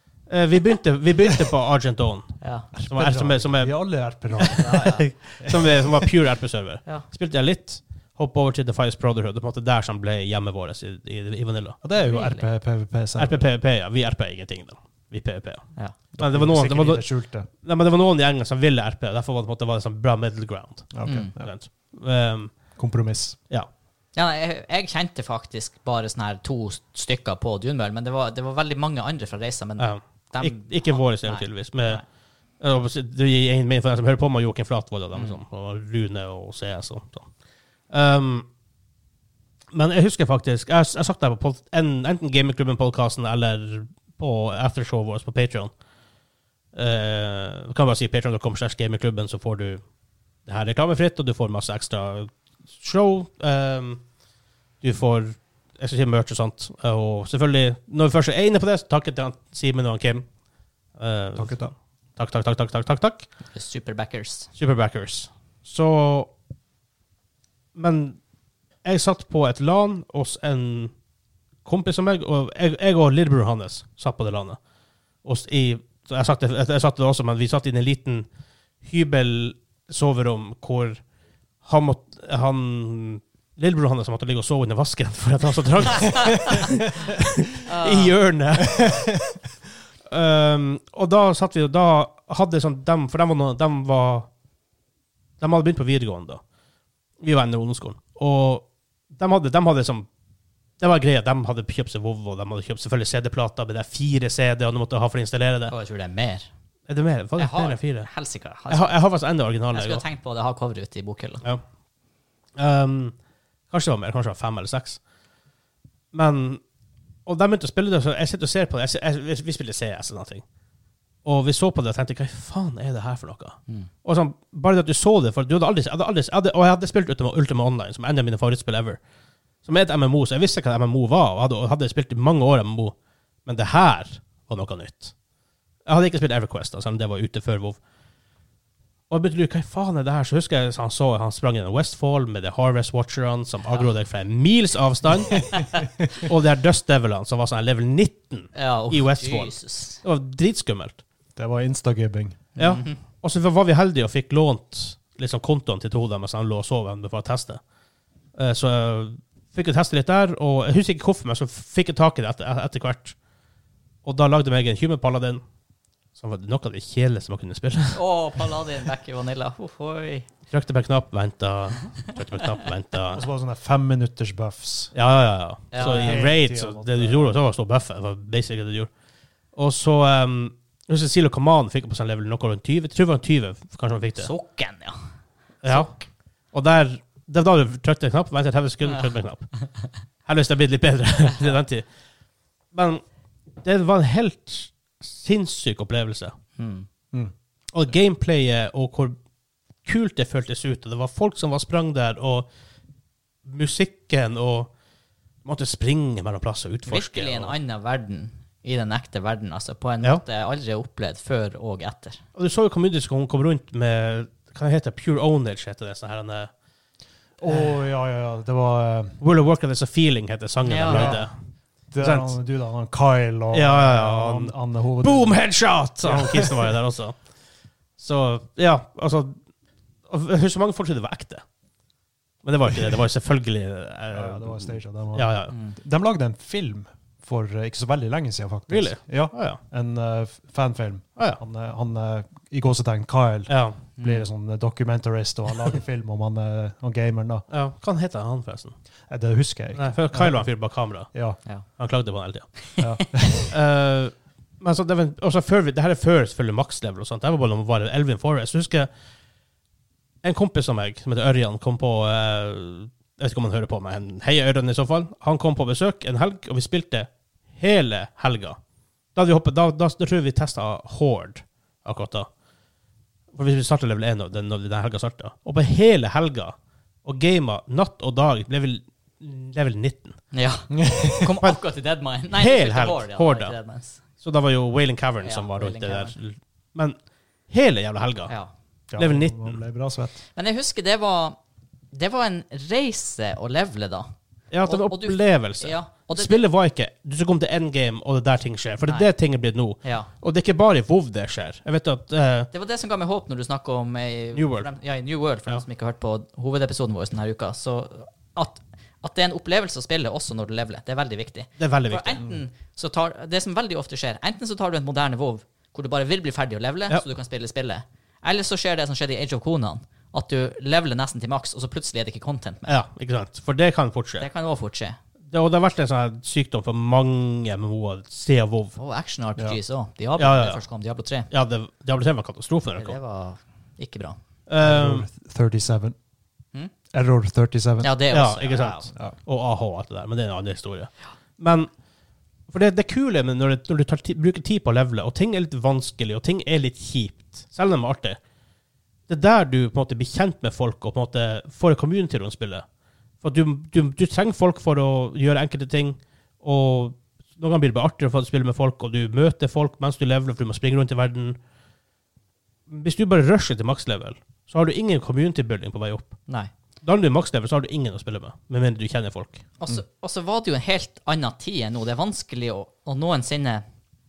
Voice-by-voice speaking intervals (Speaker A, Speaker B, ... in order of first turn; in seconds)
Speaker A: 0.3-3.8, 4.3-11.8, 13.2-17.1, 17.6-22.5, 29.8-32.0, 32.6-37.3, 37.9-38.5, 39.7-45.7, 46.7-49.8, 50.5-54.0, 54.8-60.2, 61.0-63.3, 64.6-66.3, 67.7-68.2, 68.8-70.9, 71.6-74.6, 75.2-78.2, 78.8-81.0, 81.6-89.2, 90.1-94.3, 95.4-96.4, 97.2-100.1, 100.8-105.7, 106.9-108.1, 108.7-110.0, 112.5-113.1, 113.7-115.0, 116.1-116.6, 117.2-120.4, 121.2-129.0, 129.6-135.1, 135.8-137.8, 139.1-151.0, 152.6-157.6, 158.3-163.1, 164.0-165.4, 166.2-168.0, 170.5-173.2, 174.9-178.9, 179.5-184.3, 185.6-185.9, 186.5-189.5, 190.2-191.9, 192.7-193.0, 193.6-196.3, 197.7-199.1, 199.8-202.5, 203.4-204.7, 205.4-207.5, 212.3-216.5, 219.2-221.3, 222.0-222.3, 223.5-227.2, 228.0-229.4, 230.1-231.4, 232.4-235.5, 238.7-239.6, 243.5-243.8, 247.5-248.7, 249.8-251.1, 251.8-252.6, 253.5-258.9, 260.2-268.6, 269.1-272.3, 273.3-280.2, 282.3-283.6, 284.2-286.9, 287.5-288.3, 288.9-289.6, 294.5-302.5, 304.3-304.7, 311.6-312.2, 322.7-324.2, 325.3-328.8, 330.2-330.6, 331.3-333.0, 334.5-335.0, 338.1-341.7, 342.5-348.2, 349.1-352.6, 353.2-361.4, 362.7-366.2, 366.8-369.4
Speaker B: 2.4-2.7, 4.5-5.1, 12.0-12.4, 21.0-21.3, 24.1-32.0, 63.5-64.5, 87.7-88.2, 105.7-106.5, 107.4-108.9, 109.7-111.4, 148.5-150.0, 152.6-153.0, 167.9-170.3, 175.7-176.2, 184.2-184.9, 185.7-186.0, 196.6-196.9, 206.9-212.2, 220.6-221.2, 235.5-235.8, 244.0-244.2, 280.3-284.0, 285.2-286.1, 290.3-291.4, 291.9-294.1, 294.6-296.4, 298.8-299.1, 299.8-300.1, 302.5-322.7, 324.2-325.0, 328.8-331.3, 332.8-334.2, 337.8-338.9, 369.6-373.6
Speaker C: 2.8-5.8, 11.8-13.4, 16.1-17.5, 20.9-21.5, 22.8-23.4, 61.4-61.7, 151.3-152.4, 173.1-174.9, 175.7-177.3, 217.4-219.2, 220.9-221.3, 221.9-225.5, 226.0-226.7, 234.1-247.4, 249.1-250.5, 251.1-251.4, 252.8-253.5, 280.7-281.3, 288.9-290.1, 334.6-335.9, 336.9-337.9